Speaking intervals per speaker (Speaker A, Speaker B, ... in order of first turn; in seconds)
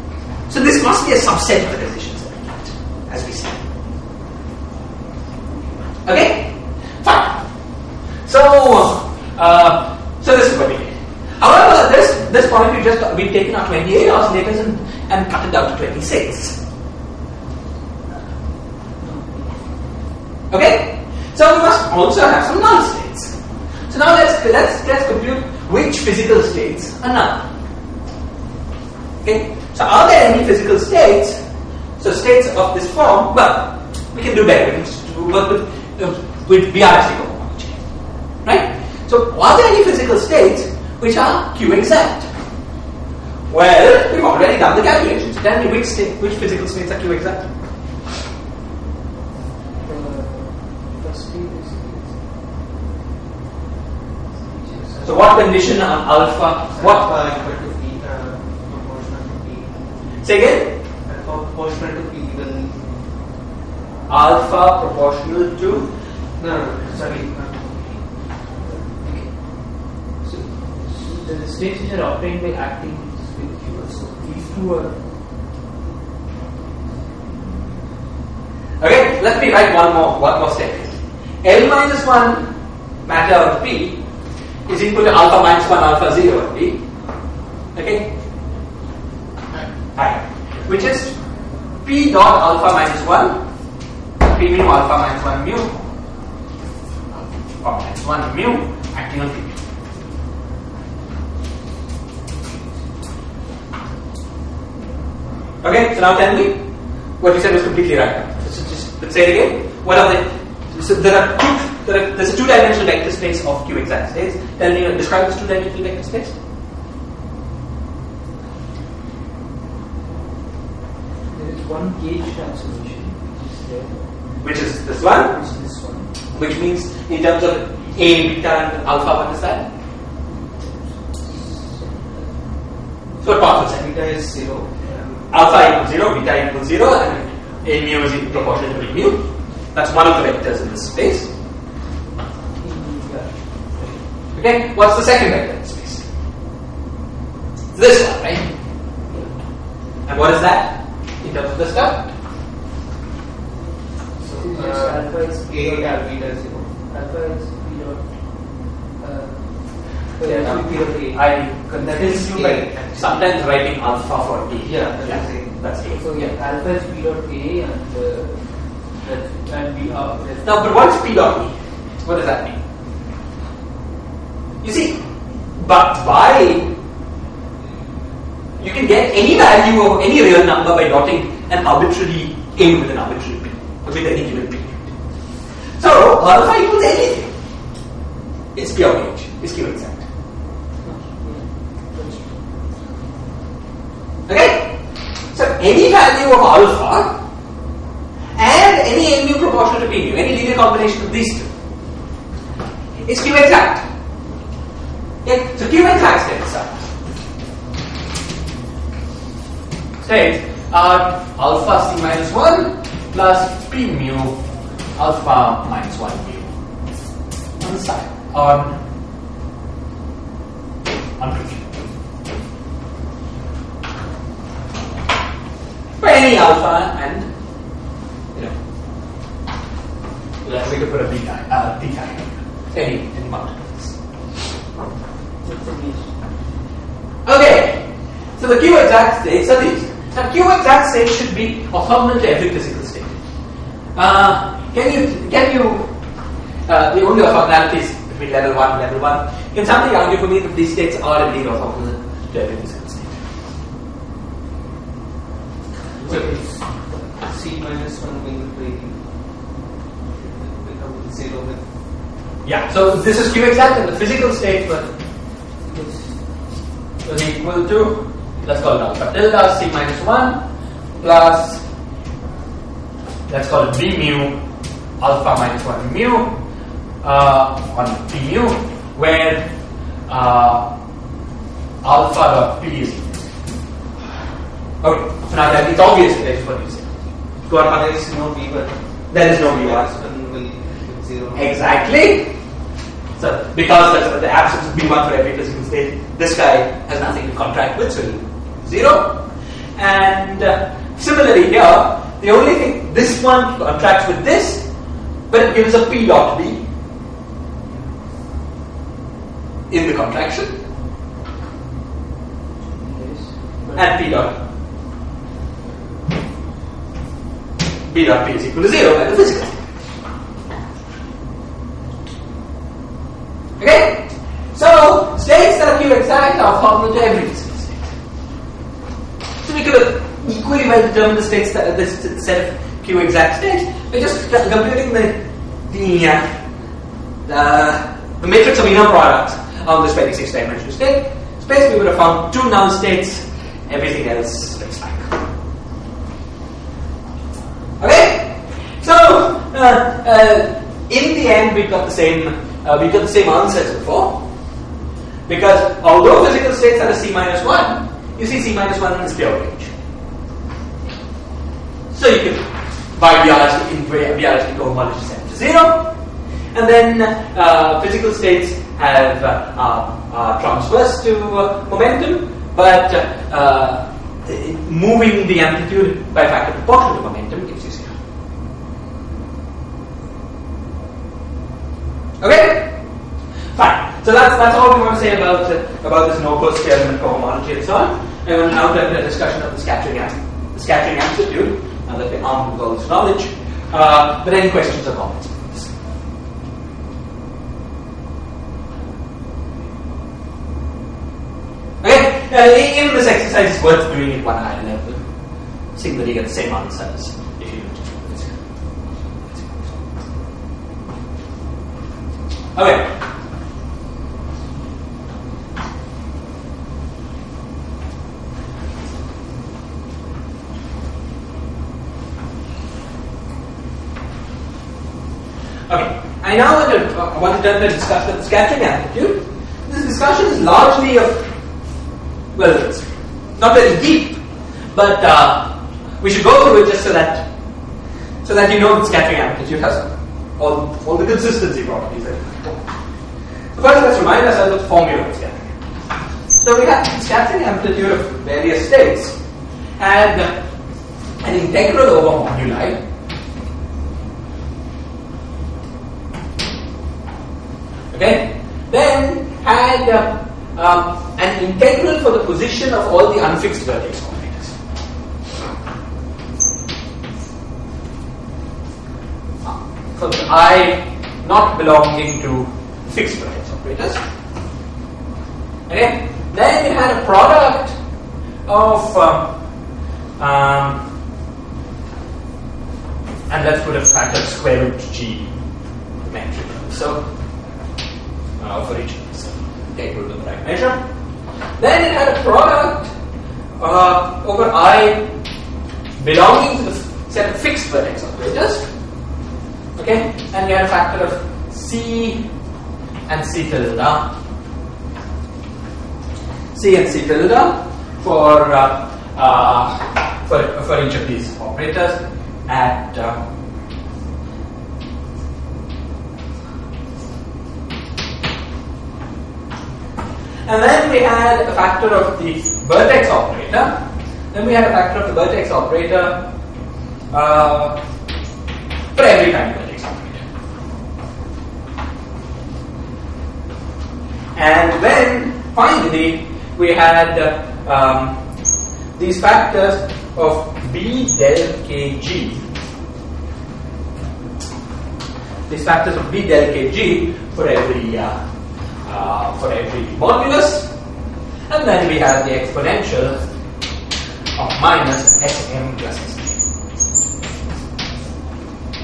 Speaker A: 0.5-3.7, 6.0-7.5, 8.2-16.6, 20.5-23.4, 23.9-27.5, 29.2-31.4, 32.0-37.8, 38.4-42.3, 43.5-47.5, 55.0-57.1, 60.2-60.8, 64.1-65.9, 78.8-84.0, 84.7-86.8, 87.8-88.2, 89.9-91.2, 91.8-93.4, 94.2-95.8, 97.2-99.6, 105.6-106.6, 107.2-116.4, 124.4-125.4, 126.3-129.7, 133.2-134.0, 135.3-141.3, 144.3-146.1, 147.7-148.5, 150.1-152.1, 160.2-166.1, 170.4-172.6, 174.6-175.0, 175.6-176.7, 178.6-184.9, 185.8-187.3, 188.6-190.1, 194.3-194.8, 195.3-197.2, 198.4-201.5, 203.1-203.8, 205.2-206.9, 210.0-214.4, 215.0-216.5, 217.6-218.8, 221.2-221.9, 226.0-227.3, 230.4-234.0, 237.2-243.2, 244.0-245.9, 246.7-253.2, 262.4-264.9, 267.1-270.4, 271.0-271.6, 273.3-274.4, 275.0-276.4, 277.0-279.5, 280.1-280.7, 281.8-283.2, 284.8-287.9, 289.1-289.9, 291.3-292.4, 293.2-299.3, 299.8-304.7, 305.3-306.7, 309.7-310.6, 313.8-314.4, 317.9-319.8, 323.6-327.9, 329.4-336.4, 337.3-345.2, 347.8-354.3, 355.3-359.7, 361.9-365.9, 366.5-378.0, 382.2-382.8, 383.6-395.7, 401.8-405.0, 405.8-408.4, 409.2-409.8, 412.6-412.9, 425.7-431.3, 432.4-437.3, 438.2-442.7, 443.5-445.6, 446.4-449.2, 449.8-450.3, 451.2-452.8, 457.9-464.6, 469.4-474.0, 475.7-477.8, 478.5-479.4, 480.2-480.9, 483.3-485.4, 486.0-487.1, 488.4-490.8, 491.6-492.9, 493.6-495.1, 496.0-498.7, 499.8-502.3, 503.1-504.1, 506.5-513.2, 520.5-523.8, 524.3-526.3, 527.1-527.8, 529.0-530.2, 534.4-538.2, 539.0-542.4, 545.5-548.2, 548.9-550.7, 551.5-553.2, 554.4-556.4
Speaker B: 19.0-19.7, 49.8-52.2, 54.3-55.2, 68.6-75.0, 77.1-77.8, 121.3-124.1, 125.2-126.2, 130.6-132.5, 142.6-143.9, 154.3-156.1, 156.9-163.0, 166.0-170.6, 190.8-192.4, 235.4-236.1, 256.0-256.9, 265.7-266.2, 312.8-314.0
Speaker C: 56.8-59.8, 61.1-63.0, 66.4-68.0, 133.6-135.3, 154.2-156.8, 161.8-163.2, 164.6-166.3, 256.1-256.4, 257.1-259.1, 260.1-261.7, 287.5-291.6